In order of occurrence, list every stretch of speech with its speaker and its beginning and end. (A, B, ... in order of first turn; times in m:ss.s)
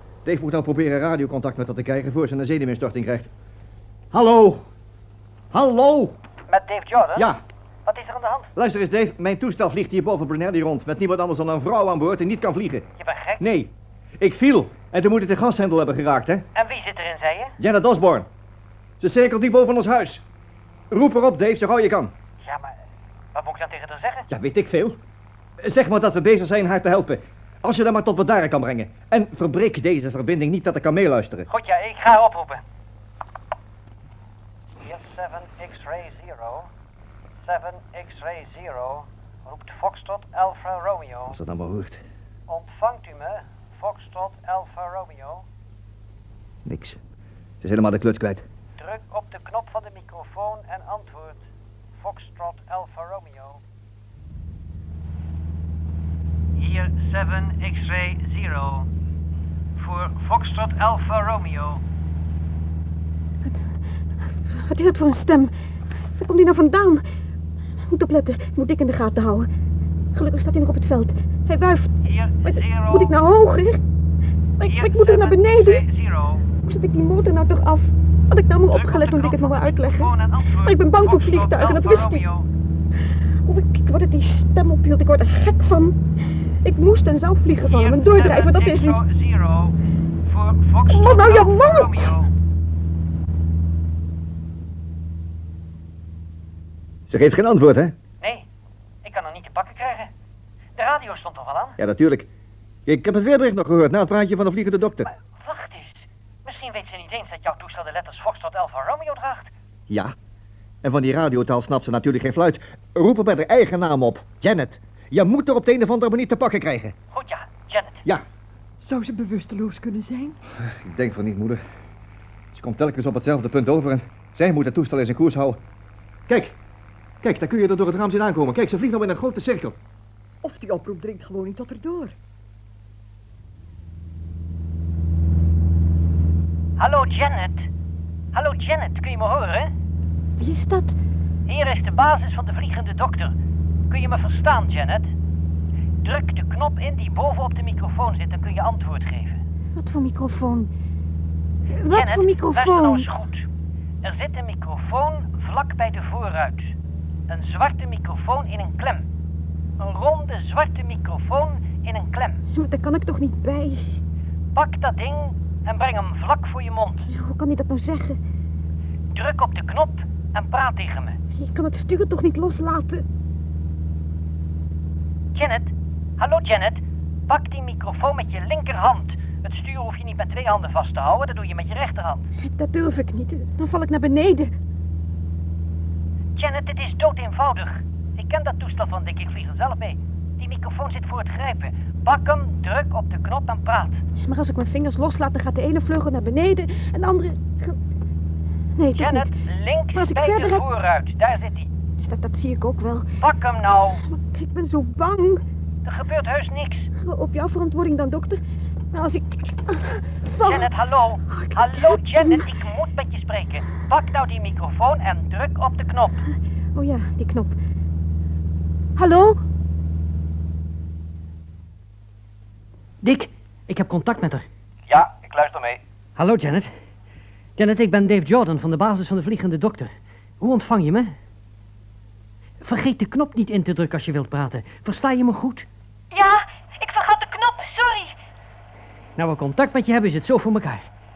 0:00.2-0:03.3 A
0:04.1-0:04.6 A
0:05.5-0:06.2 A
0:06.5-0:07.3 B
0:07.2-0:07.4 A
0:07.8-0:08.5 B
0:08.6-0:12.9 A
0:13.0-0:13.4 B
0:13.4-0:16.4 A
0:16.5-0:17.6 B
0:17.6-0:18.3 A
0:19.0-0:20.2 A
0:20.9-0:22.1 A
0:22.4-0:22.7 B
0:23.3-0:24.3 B
0:24.3-0:25.0 A
0:25.6-0:31.4 A
0:31.5-0:32.6 B
0:34.8-0:36.7 B
0:37.4-0:41.4 B
0:41.3-0:42.0 A
0:42.5-0:45.4 B
0:46.6-0:47.0 A
0:47.6-0:48.4 A
0:48.8-0:51.4 B
0:52.0-0:53.6 B
0:56.6-0:58.9 B
0:59.8-1:01.8 B
1:03.4-1:03.7 C
1:04.4-1:05.5 C
1:06.1-1:07.0 C
1:07.9-1:09.5 C
1:10.1-1:13.8 C
1:12.0-1:13.1 B
1:14.6-1:15.8 C
1:14.6-1:16.4 B
1:16.6-1:22.2 C
1:18.7-1:22.5 B
1:23.4-1:26.0 C
1:26.6-1:29.0 C
1:27.6-1:29.7 B
1:30.2-1:32.3 B
1:30.9-1:32.1 C
1:37.1-1:37.9 A
1:38.2-1:38.4 B
1:39.0-1:40.1 B
1:40.8-1:41.8 B
1:41.8-1:42.3 A
1:42.8-1:45.1 A
1:45.0-1:49.5 B
1:49.9-1:50.1 A
1:50.8-1:56.9 A
1:57.1-1:58.0 B
1:58.8-2:00.4 D
2:00.6-2:01.6 A
2:02.5-2:05.6 A
2:06.3-2:06.5 A
2:07.2-2:09.8 A
2:10.4-2:12.1 D
2:16.8-2:17.7 B
2:18.3-2:19.7 B
2:20.4-2:21.0 C
2:21.5-2:23.3 B
2:23.9-2:25.1 B
2:26.0-2:29.4 B
2:29.7-2:30.7 C
2:31.7-2:33.1 C
2:31.9-2:33.4 B
2:34.0-2:36.7 B
2:37.3-2:39.0 B
2:39.8-2:42.4 B
2:42.5-2:44.0 C
2:44.5-2:47.1 B
2:47.1-2:48.2 C
2:49.1-2:51.2 B
2:51.3-2:53.0 C
2:55.3-3:02.3 B
3:02.4-3:04.5 C
3:06.4-3:14.0 B
3:14.2-3:17.8 C
3:18.8-3:19.3 C
3:18.9-3:21.7 B
3:19.9-3:20.6 C
3:22.0-3:23.1 C
3:23.2-3:24.0 B
3:24.2-3:25.4 C
3:25.8-3:26.9 B
3:27.0-3:28.4 C
3:28.9-3:30.7 C
3:30.4-3:36.2 B
3:31.3-3:32.5 C
3:36.7-3:37.5 C
3:39.0-3:39.4 C
3:43.0-3:44.4 E
3:44.9-3:45.8 A
3:46.2-3:46.7 E
3:47.6-3:51.1 E
3:52.6-3:55.7 E
3:56.1-3:58.1 F
3:59.2-4:00.9 E